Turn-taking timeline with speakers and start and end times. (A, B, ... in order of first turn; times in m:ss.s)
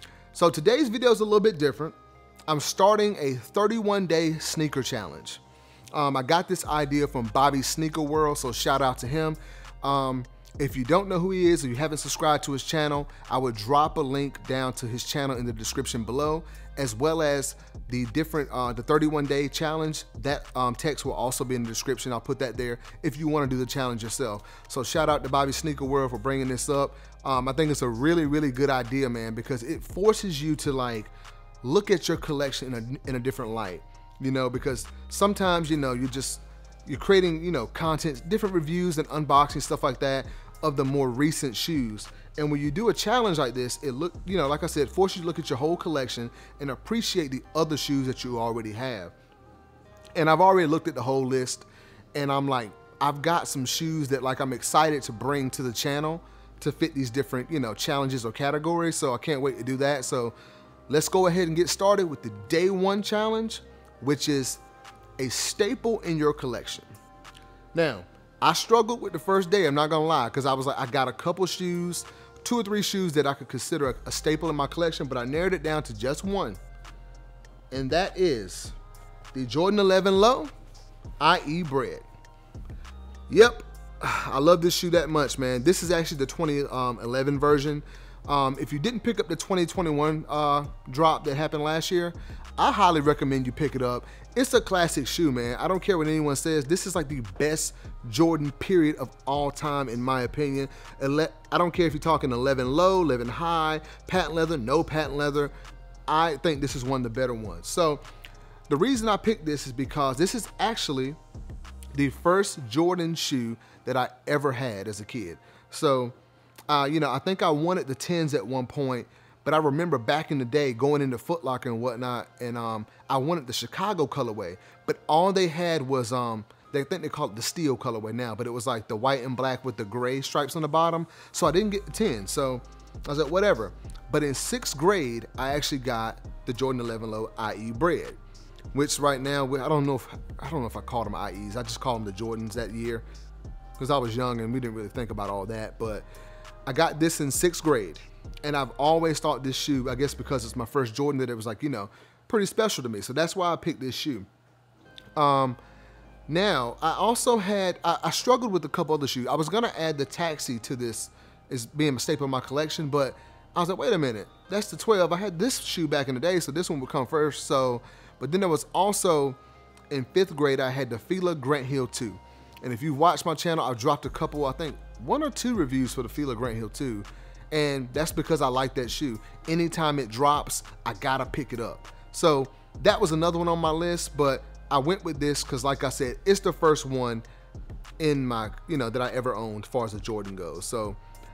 0:00.3-0:02.0 A
0:02.5-0:05.4 A
0:05.9-0:31.1 A
0:31.6-0:49.1 A
0:50.1-1:00.3 A
1:00.9-1:04.6 A
1:05.2-1:06.9 A
1:07.7-1:16.6 A
1:17.7-1:18.7 A
1:19.3-1:20.5 A
1:21.2-1:22.0 A
1:23.3-1:45.5 A
1:46.1-1:48.0 A
1:48.7-1:51.2 A
1:51.9-1:56.1 A
1:56.7-2:18.2 A
2:18.7-2:23.0 A
2:23.8-2:26.1 A
2:26.7-2:34.3 A
2:35.2-2:35.6 A
2:36.3-2:49.4 A
2:49.9-3:07.2 A
3:08.0-3:11.0 A